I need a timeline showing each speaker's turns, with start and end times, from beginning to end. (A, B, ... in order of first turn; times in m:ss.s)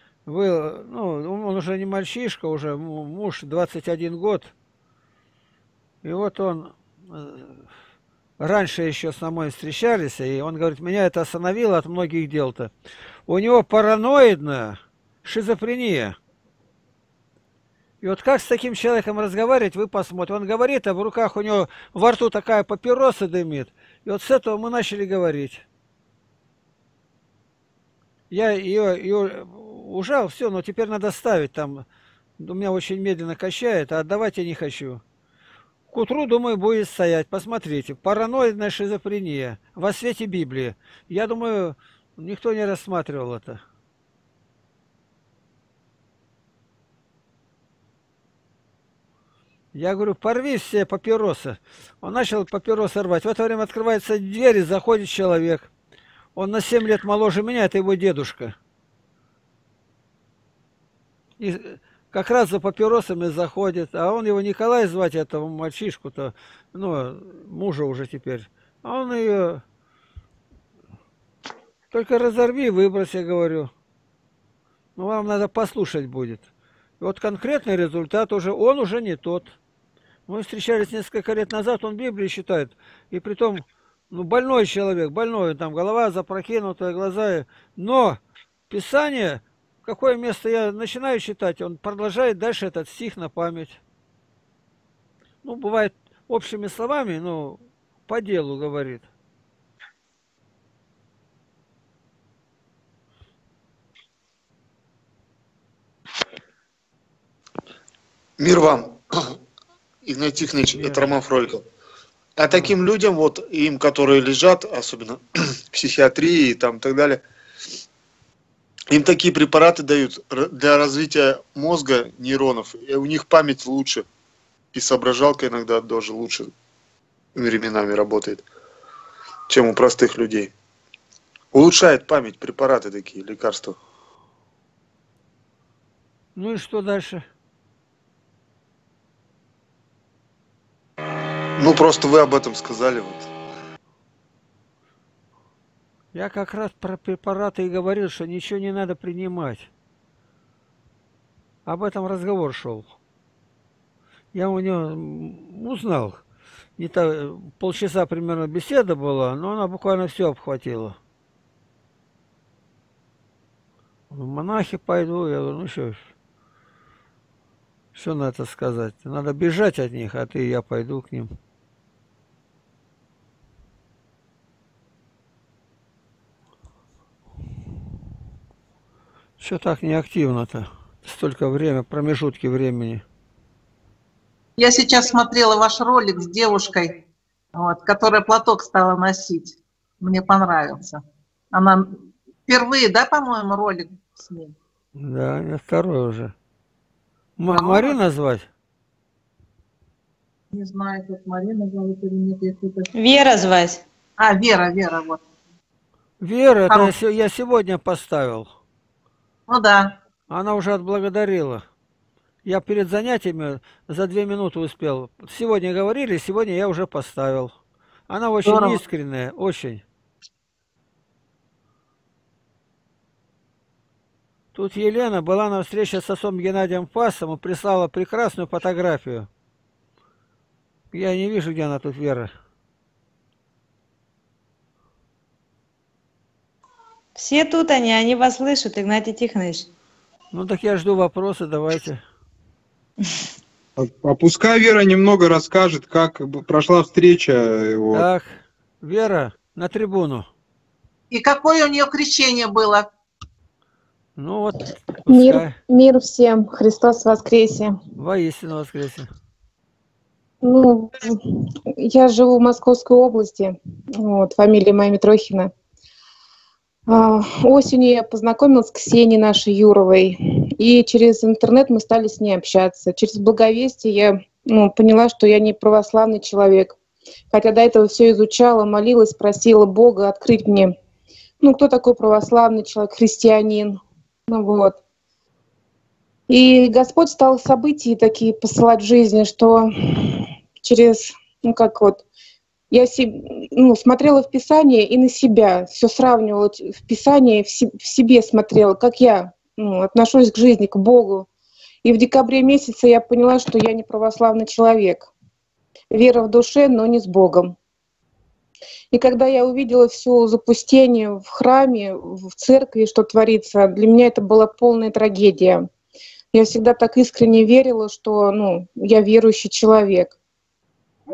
0:00.3-0:04.5 A
0:06.0-0:07.6 A
0:08.4-0:12.7 A
0:13.3-0:16.2 A
0:18.0-0:25.6 A
0:28.3-0:31.8 A
0:32.4-0:35.0 A
0:35.9-0:43.6 A
0:49.7-0:55.7 A
0:56.4-0:58.6 A
1:01.4-1:09.6 A
1:11.9-1:13.7 A
1:15.0-1:16.5 A
1:17.0-1:19.5 A
1:20.3-1:28.2 A
1:28.7-1:33.8 A
1:35.4-1:39.1 A
1:48.4-1:49.3 B
1:50.0-1:51.6 B
1:50.7-1:51.1 A
1:52.4-1:57.2 B
1:58.9-2:04.1 B
2:04.7-2:06.5 B
2:07.4-2:08.4 B
2:09.5-2:10.5 B
2:11.5-2:13.8 B
2:16.4-2:17.2 A
2:21.6-2:23.3 B
2:26.1-2:29.7 A
2:31.7-2:32.9 A
2:34.3-2:36.2 A
2:36.8-2:41.0 A
2:44.1-2:46.0 A
2:48.0-2:51.3 A
2:59.4-3:03.0 A
3:04.6-3:07.0 C
3:07.6-3:11.0 C
3:11.5-3:14.5 C
3:15.0-3:16.3 A
3:17.4-3:18.5 A
3:17.5-3:18.0 C
3:20.5-3:22.9 C
3:22.9-3:23.8 D
3:24.2-3:25.2 C
3:26.2-3:28.5 A
3:26.7-3:26.9 C
3:29.5-3:29.9 C
3:30.3-3:31.6 A
3:32.4-3:37.5 A
3:38.1-3:39.8 A
3:38.4-3:38.8 C
3:44.5-3:49.3 A
3:50.9-3:52.3 A
3:57.2-3:59.7 D
4:00.3-4:02.0 A
4:03.8-4:08.0 E
4:07.9-4:10.3 A
4:11.1-4:12.9 C
4:14.2-4:15.6 A
4:15.1-4:17.7 F
4:18.0-4:19.1 A
4:20.4-4:21.2 F
4:21.8-4:25.5 F
4:26.9-4:36.8 F
4:37.3-4:40.7 F
4:41.4-4:44.8 F
4:46.3-4:52.0 F
4:52.7-5:01.3 F
5:01.8-5:05.1 F
5:05.9-5:07.6 F
5:08.9-5:15.6 F
5:16.3-5:20.2 F